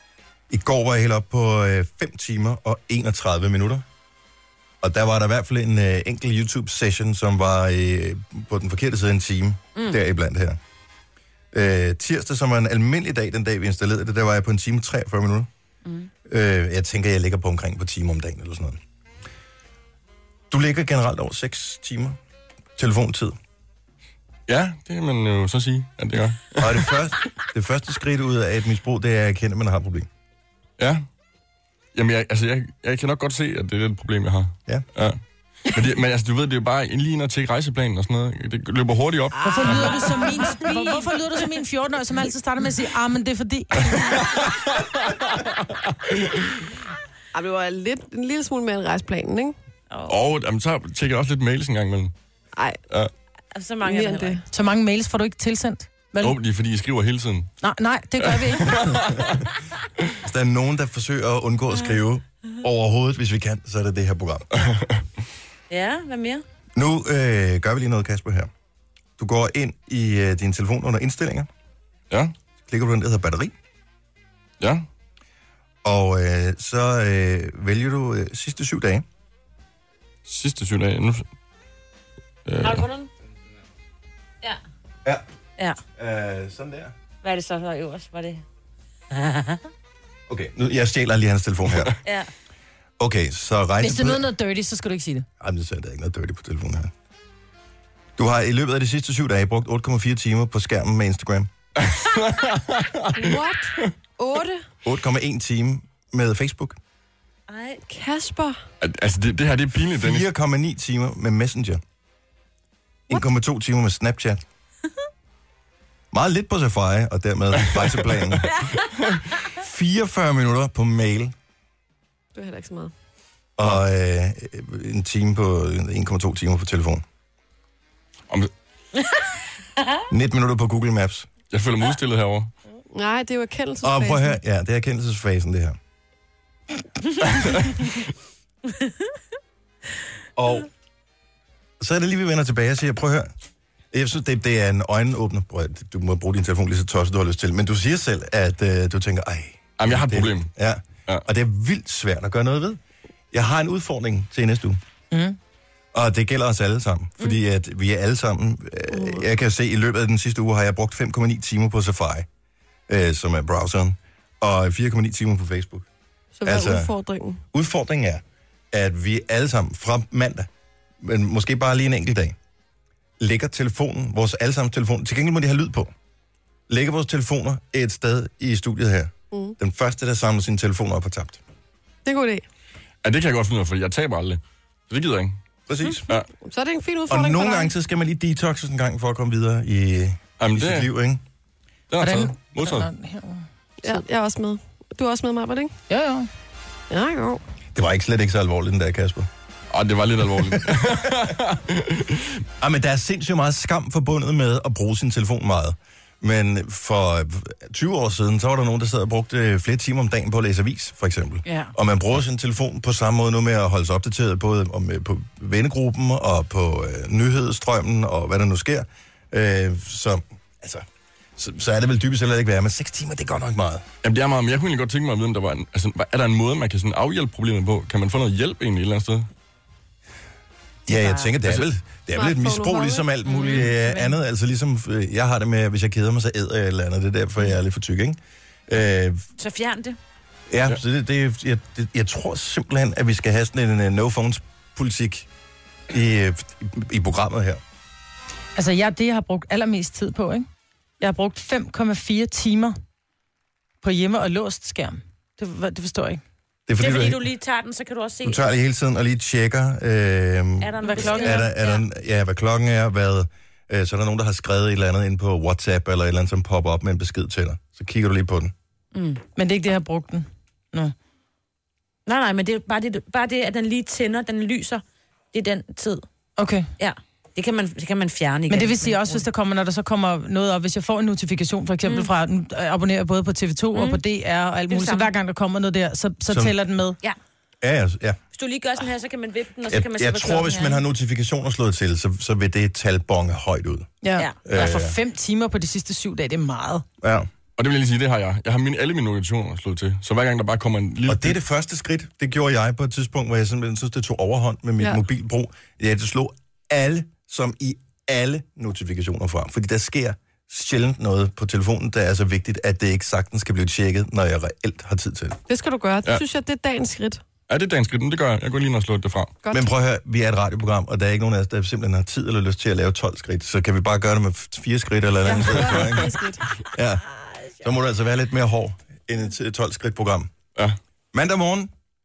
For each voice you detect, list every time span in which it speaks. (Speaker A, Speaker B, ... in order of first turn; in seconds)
Speaker A: 0.5-3.9, 4.8-10.6, 11.5-15.5, 16.3-18.8, 20.5-22.2, 22.8-23.4, 26.6-30.1, 60.2-64.8, 66.8-68.5, 69.2-71.5, 72.7-73.5, 75.8-79.0, 86.0-86.9, 90.3-92.0, 93.0-94.2, 95.4-96.9, 98.2-101.5, 104.8-106.8, 109.9-111.8, 113.1-114.4, 116.1-118.8, 119.3-121.3, 123.6-127.0, 130.1-131.3, 133.8-135.8, 140.4-140.7, 141.8-143.3, 143.9-152.8, 153.3-154.8, 155.9-162.3, 162.9-165.9, 166.4-166.9, 167.5-170.5, 171.0-172.3, 173.2-175.9, 176.7-181.4, 185.7-186.1, 187.1-191.2, 197.8-199.3, 200.4-200.9, 202.6-220.8, 221.4-223.9, 230.9-239.2, 240.5-245.3, 245.9-247.6, 256.7-257.2, 258.2-268.5, 286.3-286.6, 287.6-288.2, 289.7-293.9, 294.4-294.9, 297.0-297.3, 301.1-315.4, 319.5-326.2, 326.7-327.1, 327.6-330.3, 331.1-331.7
Speaker B: 24.5-26.9, 30.8-31.1, 31.9-39.7, 43.9-46.5, 50.1-52.1, 56.2-57.5, 58.2-59.4, 74.6-74.9, 80.2-81.3, 82.5-82.9, 101.8-103.9, 108.8-110.3, 118.0-118.5, 131.5-132.5, 137.3-137.7, 149.8-150.5, 183.0-185.4, 190.4-190.9, 191.9-192.9, 199.7-202.4, 224.0-229.3, 231.4-231.7, 297.6-301.4, 317.5-319.4
Speaker C: 39.4-44.2, 54.5-56.4, 57.6-59.0, 93.8-95.3, 155.1-155.4, 192.0-194.0, 195.9-196.3, 248.6-250.5, 251.0-252.8, 253.8-256.2, 260.8-261.5, 269.4-270.9, 276.4-276.7, 278.5-287.0, 294.0-296.9
Speaker D: 39.5-40.3, 47.3-49.5, 53.8-54.4, 103.2-104.7, 107.9-108.6, 122.3-122.9, 132.9-134.4, 158.9-159.2, 166.3-167.4, 182.1-182.4, 186.4-187.7, 193.8-195.7, 196.9-197.4, 232.1-233.1, 315.5-317.2, 319.4-319.7, 325.2-326.6
Speaker E: 39.6-41.0, 49.9-50.2, 53.5-54.4, 65.7-66.4, 82.6-83.1, 87.2-88.4, 89.1-89.6, 92.0-92.3, 107.5-107.8, 211.5-211.7, 230.9-231.3, 233.2-234.0, 239.4-240.0, 256.8-258.4, 260.6-261.8, 268.9-269.2, 272.1-276.1, 276.8-279.2, 281.8-282.1, 283.8-284.0, 284.7-285.1, 288.3-290.8